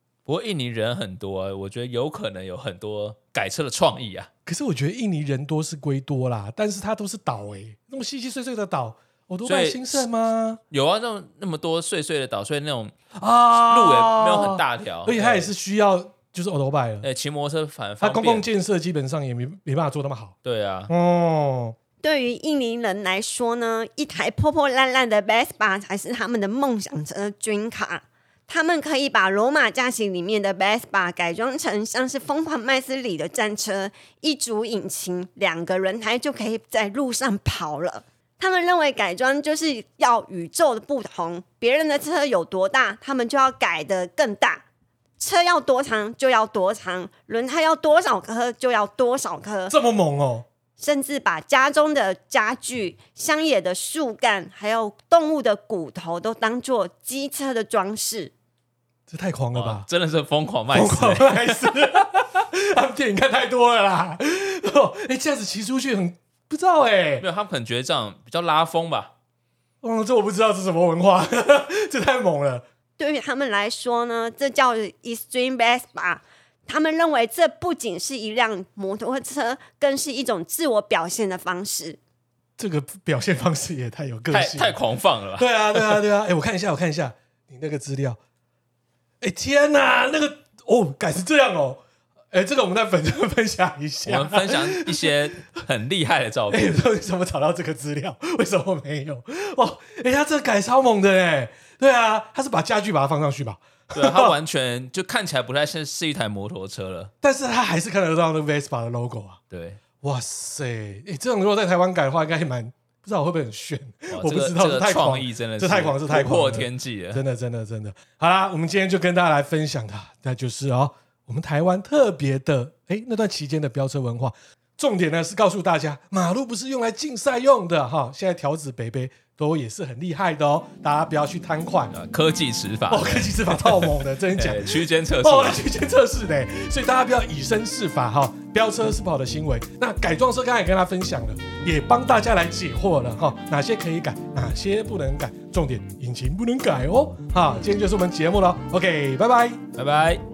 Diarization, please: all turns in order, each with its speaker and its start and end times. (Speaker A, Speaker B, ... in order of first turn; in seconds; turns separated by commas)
Speaker A: 0.2-4.3, Speaker B: 4.5-10.6, Speaker A: 9.4-10.1, Speaker A: 10.7-12.9, Speaker B: 13.1-17.1, Speaker A: 13.5-15.5, Speaker A: 17.0-18.5, Speaker B: 18.0-20.3, Speaker A: 20.4-20.9, Speaker B: 20.9-21.8, Speaker C: 22.0-44.6, Speaker C: 45.2-49.7, Speaker B: 49.7-50.5, Speaker C: 50.8-58.3, Speaker B: 59.1-59.9, Speaker A: 59.5-61.7, Speaker B: 60.7-67.2, Speaker A: 67.2-69.1, Speaker B: 69.8-72.6, Speaker C: 73.0-82.0, Speaker B: 82.6-84.8, Speaker A: 84.3-86.0, Speaker B: 85.4-88.2, Speaker B: 89.2-91.8, Speaker B: 92.3-95.1, Speaker A: 94.0-96.8, Speaker B: 96.5-104.3, Speaker A: 103.9-107.1, Speaker B: 107.2-109.4, Speaker A: 109.5-109.8, Speaker B: 110.0-131.9, Speaker A: 114.1-117.2, Speaker A: 131.9-135.6, Speaker B: 132.9-149.6, Speaker A: 149.7-150.2